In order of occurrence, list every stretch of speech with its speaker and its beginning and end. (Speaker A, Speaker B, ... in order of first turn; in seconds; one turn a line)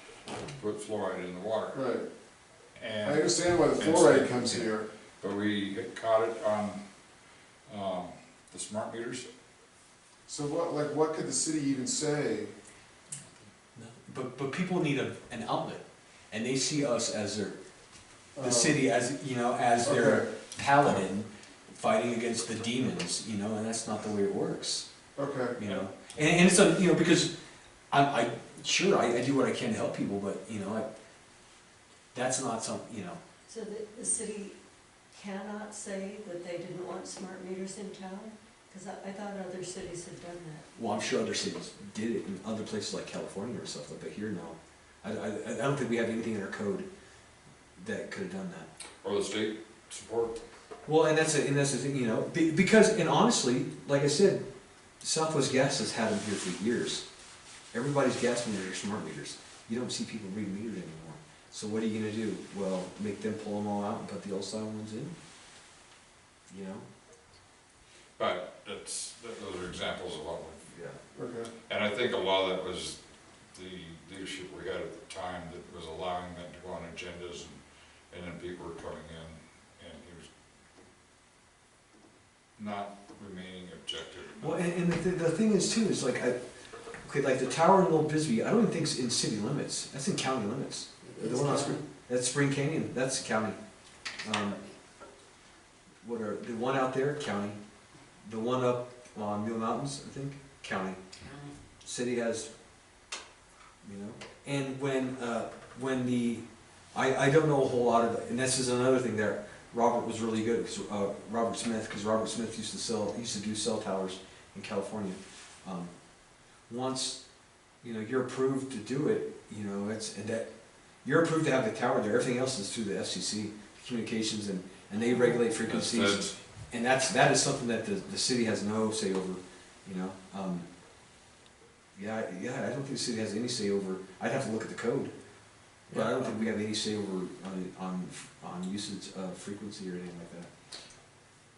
Speaker A: 0.4-1.8
Speaker B: 1.7-2.1
Speaker A: 2.8-6.8
Speaker B: 3.0-4.9
Speaker A: 7.7-9.3
Speaker B: 10.3-12.5
Speaker C: 13.7-17.6
Speaker B: 18.4-18.8
Speaker C: 18.4-24.9
Speaker B: 19.8-20.3
Speaker B: 25.2-25.6
Speaker C: 25.6-27.3
Speaker C: 27.9-30.9
Speaker C: 32.1-33.2
Speaker D: 33.5-34.6
Speaker D: 35.1-40.7
Speaker C: 40.7-46.9
Speaker C: 47.8-48.7
Speaker A: 49.0-50.5
Speaker C: 50.9-54.4
Speaker C: 55.0-57.0
Speaker C: 57.7-65.1
Speaker C: 66.5-66.8
Speaker A: 68.2-70.6
Speaker C: 70.7-71.0
Speaker B: 71.2-71.5
Speaker A: 71.7-73.0
Speaker A: 73.5-80.3
Speaker A: 82.6-84.6
Speaker C: 84.4-86.3
Speaker C: 87.0-93.6
Speaker B: 91.0-91.8
Speaker D: 91.2-91.8
Speaker C: 94.2-94.6
Speaker C: 96.0-97.6
Speaker C: 98.2-101.0
Speaker C: 101.8-102.5
Speaker C: 103.8-115.9
Speaker C: 116.7-117.2
Speaker C: 117.8-120.5
Speaker C: 121.0-130.7
Speaker A: 125.5-126.3
Speaker C: 131.9-135.1
Speaker C: 135.9-140.5